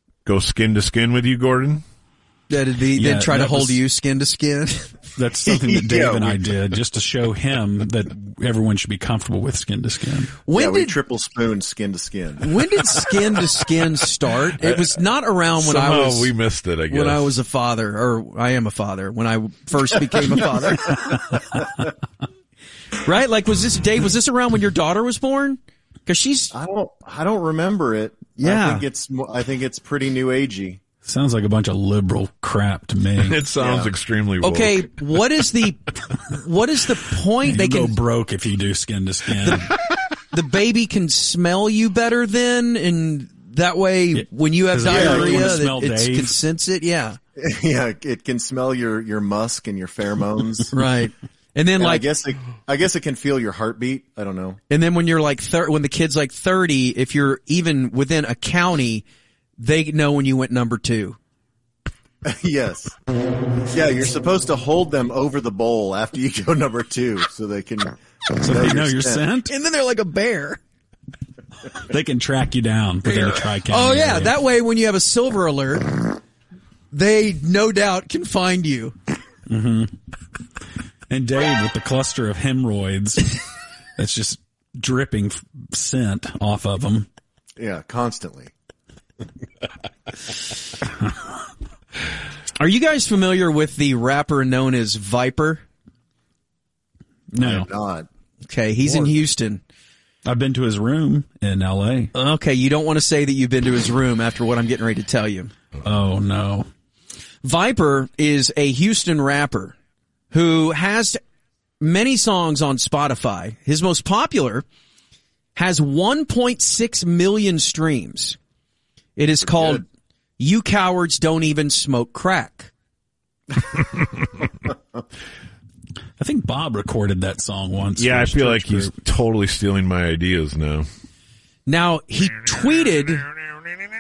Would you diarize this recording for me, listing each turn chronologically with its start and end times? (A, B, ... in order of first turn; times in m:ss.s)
0:00.2-0:01.8 A
0:02.5-0:04.9 B
0:02.9-0:03.8 C
0:05.2-0:10.3 C
0:05.5-0:06.4 D
0:10.5-0:11.0 B
0:10.5-0:12.6 D
0:12.4-0:16.3 B
0:15.6-0:17.3 A
0:16.9-0:21.2 B
0:23.0-0:26.5 B
0:26.5-0:30.8 D
0:28.4-0:28.8 B
0:31.0-0:33.4 C
0:33.2-0:35.0 A
0:33.6-0:33.9 D
0:34.4-0:38.0 B
0:37.4-0:39.7 C
0:40.3-0:47.2 B
0:44.1-0:46.4 C
0:44.8-0:45.6 D
0:47.4-0:50.8 D
0:50.7-0:52.0 B
0:51.8-0:54.6 D
0:54.7-0:59.0 B
0:59.6-1:01.2 B
1:02.2-1:03.0 D
1:03.7-1:09.3 D
1:08.4-1:09.5 C
1:09.4-1:10.6 B
1:11.8-1:14.4 C
1:13.1-1:16.0 B
1:16.9-1:19.0 B
1:19.5-1:20.0 C
1:21.1-1:23.4 C
1:24.0-1:27.1 C
1:27.6-1:28.5 D
1:32.6-1:35.6 B
1:37.3-1:37.7 C
1:37.4-1:38.1 D
1:38.4-1:39.6 B
1:40.2-1:42.1 C
1:42.1-1:45.5 B
1:45.8-1:46.7 C
1:47.4-1:49.8 B
1:50.3-1:51.2 B
1:51.8-1:54.6 B
1:55.6-1:58.4 B
1:59.2-1:59.8 B
2:00.4-2:02.7 B
2:06.2-2:09.0 C
2:08.0-2:10.9 A
2:11.7-2:13.3 B